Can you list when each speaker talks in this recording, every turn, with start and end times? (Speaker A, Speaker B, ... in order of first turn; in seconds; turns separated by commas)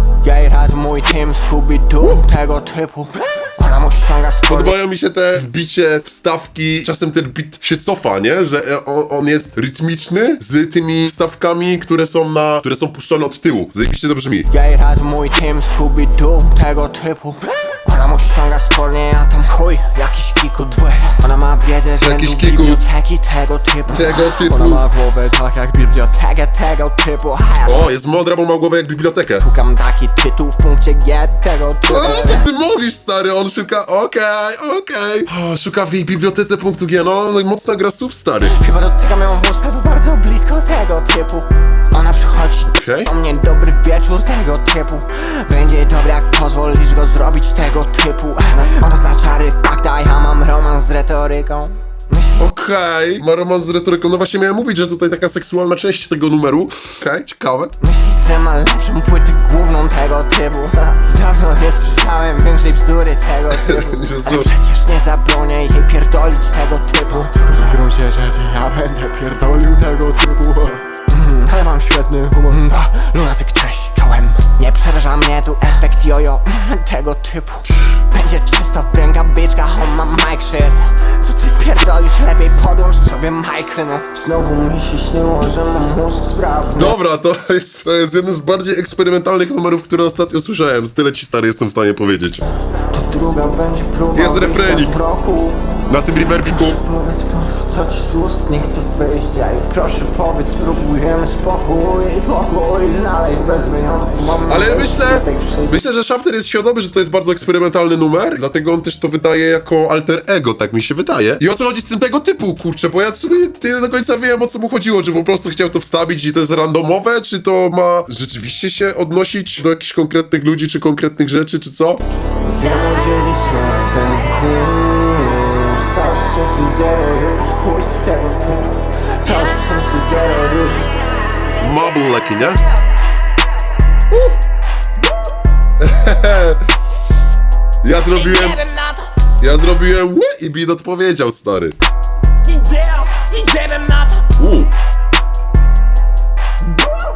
Speaker A: 0.2-4.8, Speaker B: 4.5-14.5, Speaker A: 14.5-27.9, Speaker B: 22.0-22.9, Speaker B: 23.9-24.8, Speaker B: 27.6-29.4, Speaker A: 29.4-32.4, Speaker B: 31.9-38.5, Speaker A: 38.4-52.5, Speaker B: 42.7-43.1, Speaker B: 52.4-57.7, Speaker A: 57.8-87.0, Speaker B: 63.5-64.5, Speaker B: 86.7-92.5, Speaker A: 92.9-95.6, Speaker B: 94.1-95.0, Speaker B: 95.9-96.8, Speaker A: 96.1-105.8, Speaker B: 104.4-122.0, Speaker A: 122.4-131.0, Speaker B: 131.6-132.6, Speaker B: 135.8-136.6, Speaker B: 137.8-138.6, Speaker A: 138.1-139.1, Speaker B: 139.4-141.8, Speaker A: 142.4-144.4, Speaker B: 144.3-144.7